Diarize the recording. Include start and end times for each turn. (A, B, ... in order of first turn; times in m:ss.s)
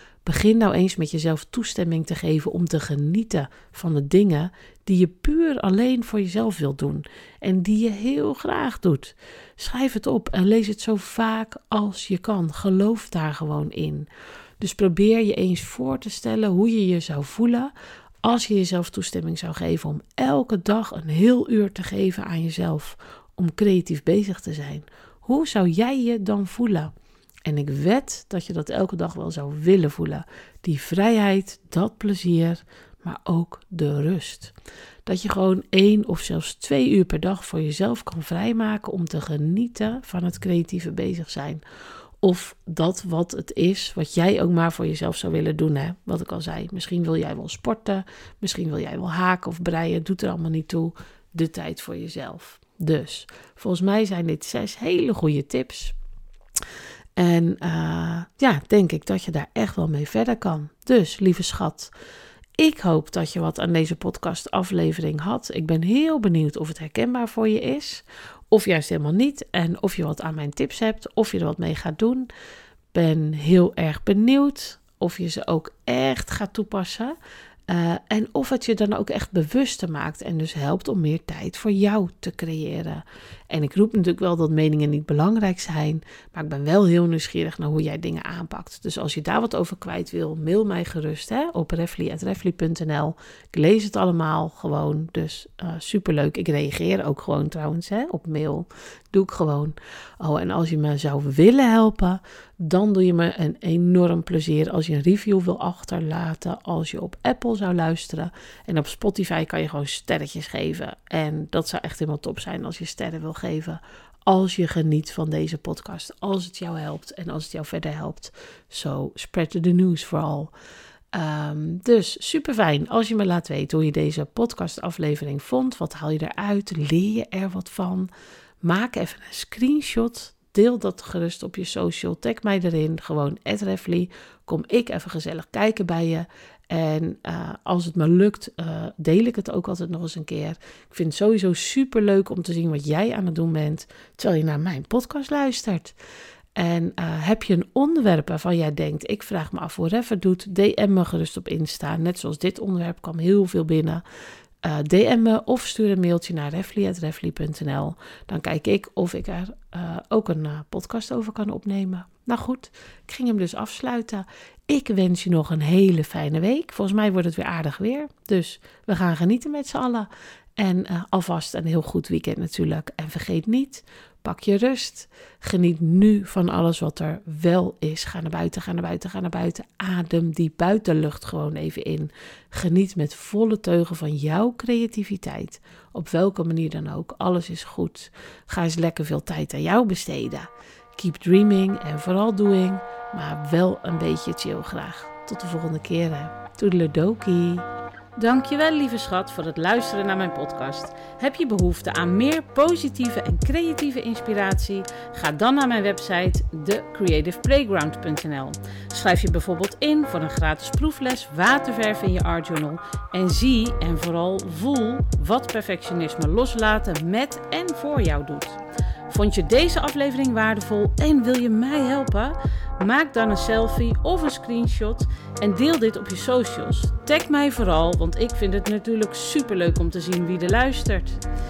0:00.2-0:14.1 A
0:14.6-0:17.7 A
0:18.2-0:26.9 A
0:27.4-0:34.5 A
0:35.0-0:41.6 A
0:42.2-0:55.9 A
0:57.2-1:01.9 A
1:02.6-1:12.3 A
1:12.9-1:17.1 A
1:17.7-2:00.5 A
2:01.1-2:08.1 A
2:08.6-2:25.9 A
2:26.6-2:34.0 A
2:34.6-3:38.6 A
3:39.1-3:51.2 A